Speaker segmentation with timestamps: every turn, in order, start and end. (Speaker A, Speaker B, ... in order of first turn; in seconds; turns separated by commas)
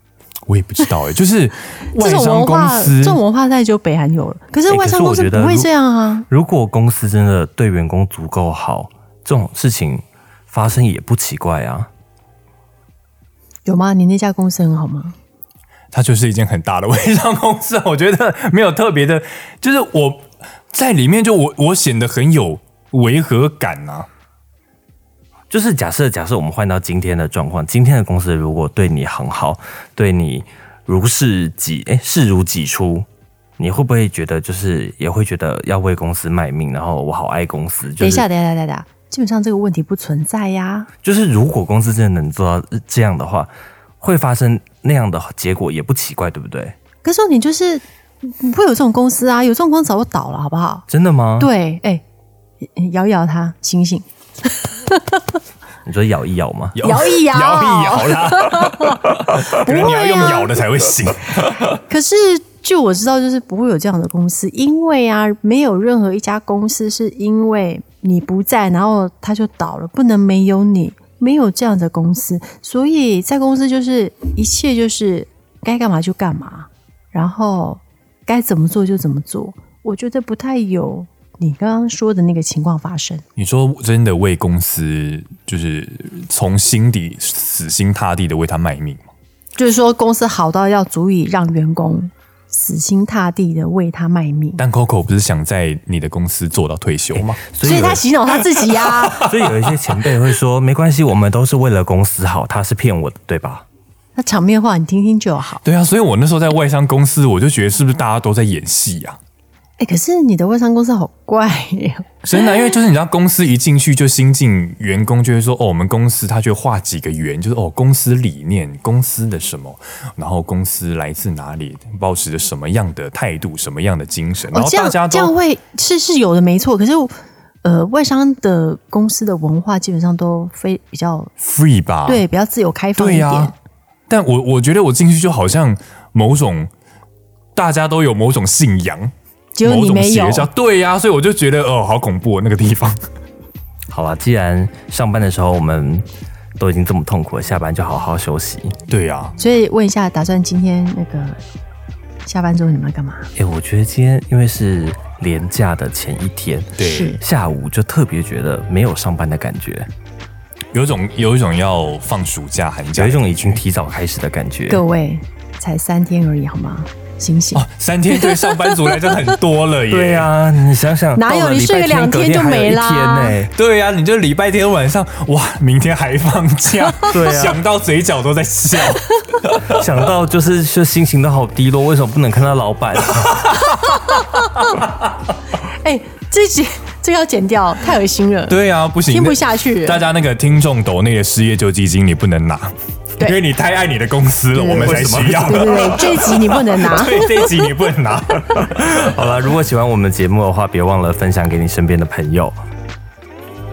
Speaker A: 0.5-3.2, Speaker B: 1.9-6.3, Speaker C: 4.7-5.7, Speaker C: 6.3-11.9, Speaker B: 13.7-15.2, Speaker A: 15.9-24.1, Speaker C: 25.5-33.1, Speaker C: 33.6-38.3, Speaker B: 38.0-40.9, Speaker C: 41.0-43.5, Speaker C: 44.0-46.8, Speaker B: 47.0-50.9, Speaker C: 50.9-51.5, Speaker B: 51.4-52.0, Speaker B: 52.6-55.2, Speaker C: 55.9-56.8, Speaker A: 56.8-61.8, Speaker B: 56.8-60.6, Speaker B: 61.9-83.2, Speaker A: 83.4-89.1, Speaker B: 89.6-94.6, Speaker A: 94.6-97.5, Speaker C: 97.1-98.0, Speaker B: 97.6-99.3, Speaker A: 98.6-99.8, Speaker C: 99.2-103.7, Speaker B: 104.2-105.6, Speaker A: 105.6-109.2, Speaker B: 109.8-112.5, Speaker A: 112.3-125.3, Speaker B: 124.5-131.3, Speaker A: 131.4-132.2, Speaker B: 132.1-133.5, Speaker A: 133.0-133.5, Speaker A: 134.1-136.7, Speaker A: 137.6-139.1, Speaker B: 139.6-140.5, Speaker A: 139.6-143.0, Speaker C: 143.9-146.1, Speaker C: 146.6-148.8, Speaker A: 148.9-149.3, Speaker B: 149.4-151.4, Speaker B: 152.2-153.3, Speaker C: 153.4-159.9, Speaker A: 156.8-157.2, Speaker B: 156.8-157.2, Speaker A: 160.7-163.6, Speaker C: 162.9-164.8, Speaker B: 164.7-169.1, Speaker A: 167.5-170.3, Speaker C: 169.9-173.5, Speaker B: 171.2-173.4, Speaker A: 173.6-179.8, Speaker C: 177.0-177.6, Speaker C: 179.7-183.5, Speaker A: 183.1-184.7, Speaker B: 183.8-184.1, Speaker B: 185.7-190.1, Speaker A: 188.5-199.0, Speaker B: 194.5-197.5, Speaker C: 194.8-196.1, Speaker C: 198.5-202.6